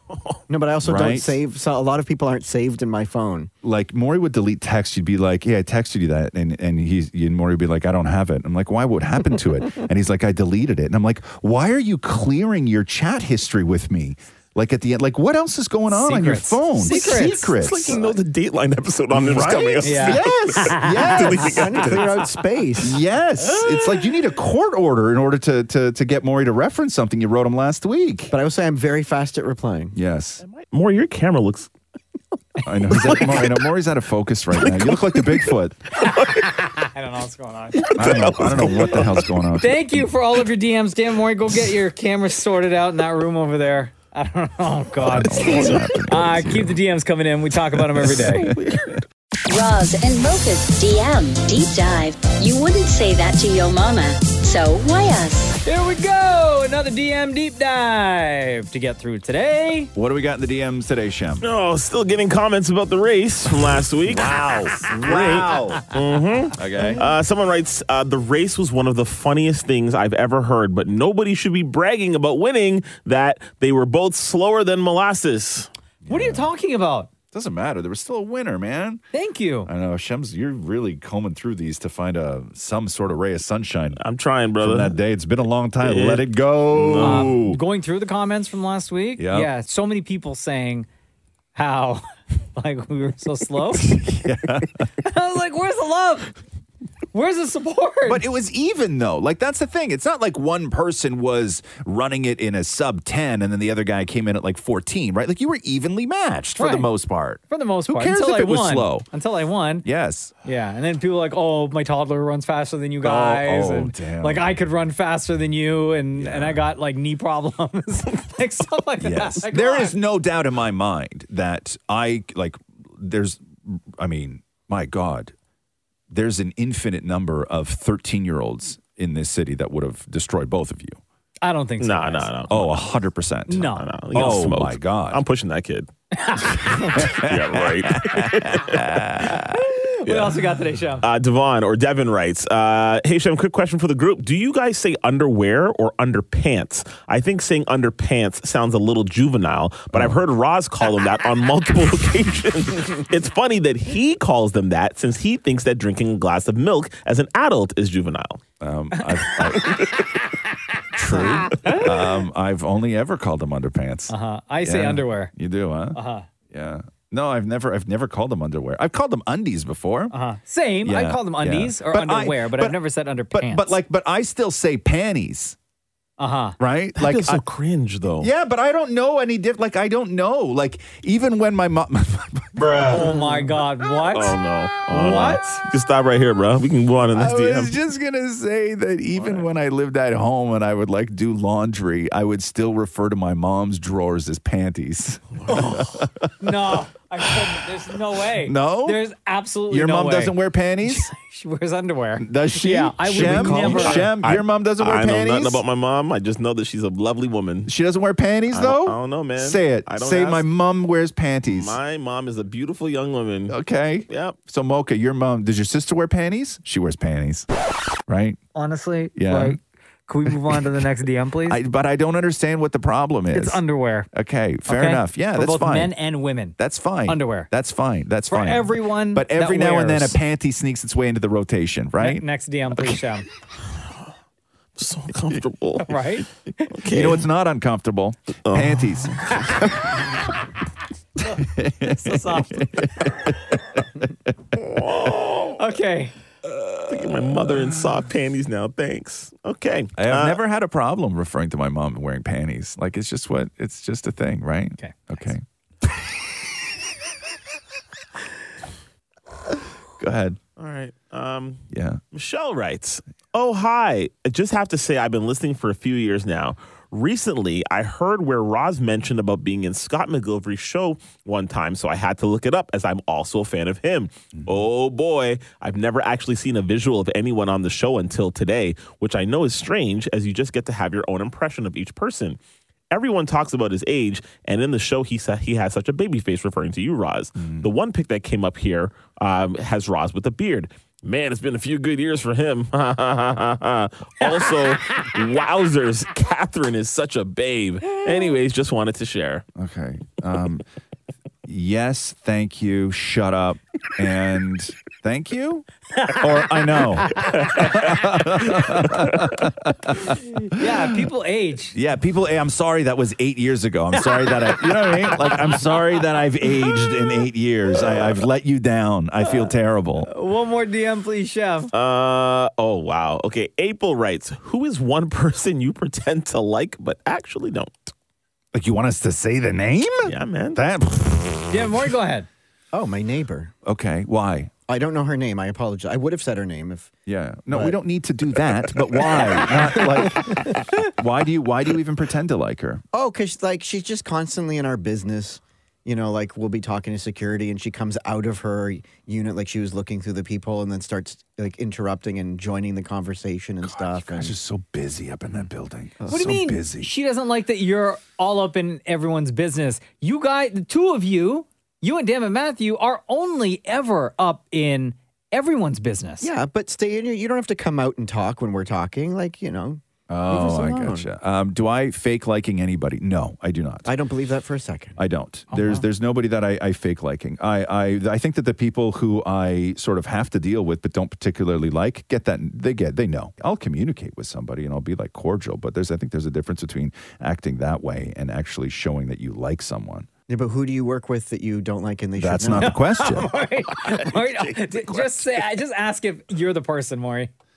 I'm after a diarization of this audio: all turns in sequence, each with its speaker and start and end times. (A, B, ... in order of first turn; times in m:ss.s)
0:00.1-0:00.4 A
0:00.5-0:03.5 B
0:00.8-0:01.4 C
0:03.6-0:18.2 C
0:15.9-0:17.5 D
0:16.9-0:22.3 A
0:19.1-0:22.0 C
0:19.8-0:21.0 D
0:21.1-0:23.0 B
0:22.8-0:28.3 C
0:28.3-0:30.0 B
0:30.0-0:30.4 C
0:30.4-0:31.7 A
0:32.6-0:35.8 C
0:33.0-0:33.5 A
0:34.6-0:36.5 A
0:36.3-0:38.1 D
0:37.8-0:39.2 A
0:37.9-0:40.1 C
0:39.6-0:48.6 D
0:45.0-0:46.8 C
0:45.3-0:46.0 A
0:48.2-0:49.0 A
0:49.5-0:55.6 E
0:55.6-0:59.9 D
1:00.0-1:01.5 C
1:01.4-1:04.4 A
1:04.0-1:05.9 C
1:04.9-1:15.7 A
1:06.5-1:07.1 C
1:16.0-1:16.5 C
1:16.1-1:17.1 D
1:17.3-1:19.0 C
1:19.1-1:19.7 D
1:19.6-1:24.0 C
1:24.0-1:25.0 A
1:24.6-1:27.6 C
1:25.8-1:27.5 A
1:27.0-1:30.9 D
1:29.2-1:29.5 C
1:31.6-1:32.0 D
1:32.6-1:34.0 D
1:33.7-1:34.9 C
1:35.0-1:36.4 D
1:37.1-1:38.2 D
1:38.1-1:49.1 C
1:46.6-1:46.9 D
1:47.5-1:49.9 D
1:49.8-1:50.3 C
1:50.4-2:00.0 D
1:53.0-1:54.5 C
1:56.2-1:56.6 C
1:59.0-2:05.3 C
2:06.1-2:11.0 C
2:11.4-2:12.3 D
2:11.8-2:12.8 A
2:12.5-2:15.2 C
2:13.5-2:13.9 D
2:13.6-2:15.9 A
2:16.2-2:17.1 D
2:16.7-2:19.3 A
2:16.7-2:19.6 C
2:19.5-2:21.1 D
2:20.1-2:20.4 A
2:21.0-2:38.4 A
2:29.9-2:30.2 C
2:38.6-2:39.9 C
2:40.9-2:46.0 C
2:41.2-2:41.8 D
2:44.1-2:45.3 D
2:45.9-2:46.3 D
2:46.5-2:50.1 C
2:50.1-2:53.8 D
2:50.8-2:55.6 C
2:56.2-2:56.6 D
2:56.6-2:57.4 C
2:57.0-2:58.3 A
2:58.2-3:03.2 C
3:02.6-3:03.0 A
3:02.9-3:04.4 D
3:04.1-3:07.7 A
3:04.9-3:05.6 D
3:05.0-3:05.4 C
3:07.1-3:16.5 C
3:09.2-3:09.4 A
3:15.5-3:15.9 D
3:16.4-3:24.1 D
3:18.3-3:19.0 C
3:19.7-3:21.1 C
3:22.2-3:25.6 C
3:23.2-3:27.7 A
3:27.7-3:31.8 C
3:28.5-3:30.4 A
3:31.5-3:33.6 A
3:33.5-3:37.5 C
3:34.1-3:34.4 A
3:38.1-3:38.4 C
3:38.6-3:41.6 D
3:39.2-3:39.6 C
3:40.3-3:40.6 C
3:41.5-3:45.9 C
3:43.3-3:44.1 D
3:44.7-3:47.5 D
3:46.6-3:52.2 C
3:48.3-3:50.2 D
3:52.0-3:53.3 D
3:54.8-3:56.0 A
3:55.9-3:56.7 D
3:56.7-3:57.2 A
3:56.9-3:59.6 C
3:58.5-4:00.1 A
4:01.2-4:02.7 D
4:01.4-4:04.8 C
4:04.6-4:05.6 A
4:05.6-4:06.1 D
4:06.5-4:10.4 A
4:06.9-4:07.9 C
4:10.0-4:15.4 C
4:14.8-4:15.3 D
4:20.0-4:20.4 C
4:20.6-4:21.6 A
4:21.7-4:22.0 C
4:22.1-4:42.4 A
4:42.9-4:59.4 A
4:47.4-4:47.7 C
4:59.6-5:00.6 C
5:01.4-5:11.1 C
5:07.3-5:09.4 A
5:10.1-5:11.8 D
5:11.7-5:20.1 C
5:14.0-5:15.5 D
5:20.0-5:21.7 D
5:21.7-5:27.9 A
5:28.5-5:31.8 C
5:30.0-5:30.6 A
5:31.5-5:32.3 D
5:32.7-5:33.5 B
5:33.6-5:34.5 C
5:34.7-5:36.9 B
5:37.1-5:42.8 C
5:37.5-5:37.8 B
5:38.9-5:40.6 B
5:42.9-5:54.3 B
5:53.6-5:56.9 C
5:56.0-5:56.3 B
5:56.1-6:06.3 D
6:06.2-6:11.1 B
6:10.1-6:13.9 C
6:13.8-6:15.0 B
6:15.0-6:30.1 C
6:15.5-6:15.8 D
6:30.3-6:32.8 B
6:32.2-6:33.3 C
6:32.6-6:37.3 D
6:33.8-6:35.3 A